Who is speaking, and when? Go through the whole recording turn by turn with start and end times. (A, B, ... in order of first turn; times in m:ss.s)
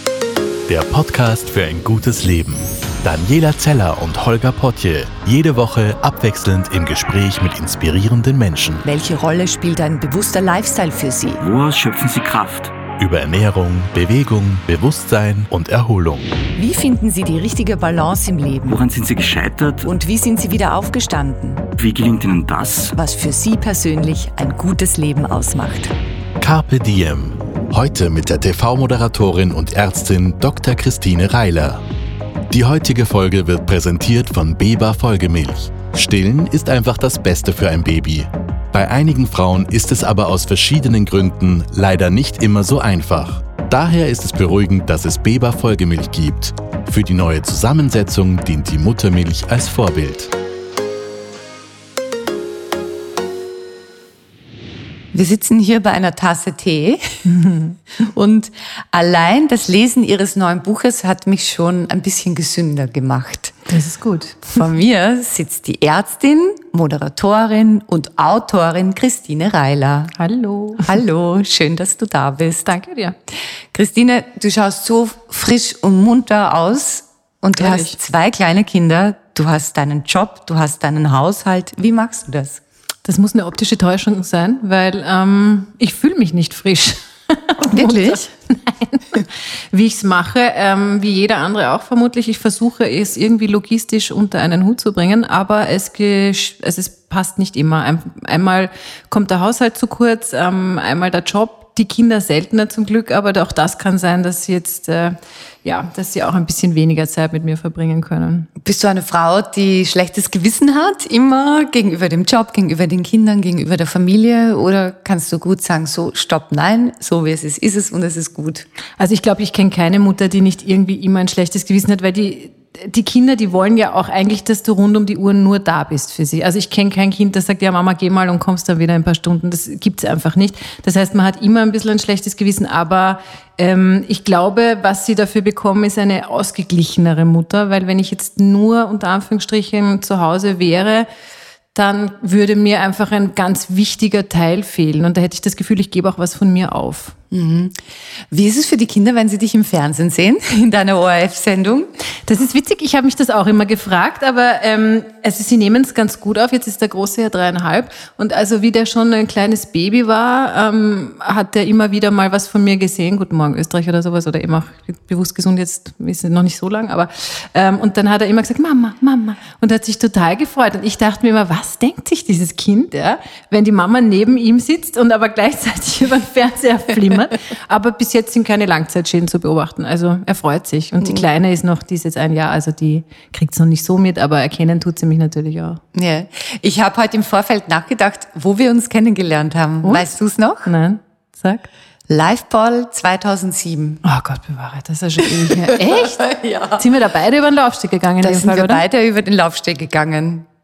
0:00.7-0:08.8 A
0:08.8-0:11.4 B
0:11.4-0:12.8 C
0:13.0-0:16.4 A
0:16.6-0:18.8 B
0:18.7-0:19.9 C
0:19.8-0:21.7 B
0:21.8-0:23.0 C
0:22.9-0:25.9 B
0:26.4-0:31.8 A
0:32.5-0:50.3 A
0:55.1-0:57.3 B
0:57.3-0:57.8 D
0:58.0-1:03.6 B
1:03.7-1:04.6 D
1:04.5-1:10.1 B
1:10.2-1:10.9 D
1:10.8-1:12.7 B
1:12.7-1:13.2 D
1:13.7-1:22.6 B
1:17.6-1:18.0 D
1:23.0-1:48.5 D
1:27.6-1:28.3 B
1:48.6-1:58.7 B
1:59.0-2:21.1 D
2:21.7-2:27.2 D
2:27.3-2:31.9 B
2:32.3-3:05.8 D
3:05.9-3:10.7 B
3:09.8-3:10.1 D
3:10.6-3:11.7 D
3:12.1-3:14.0 B
3:14.0-3:16.2 D
3:15.2-3:16.8 B
3:16.8-3:18.8 D
3:18.2-3:20.5 B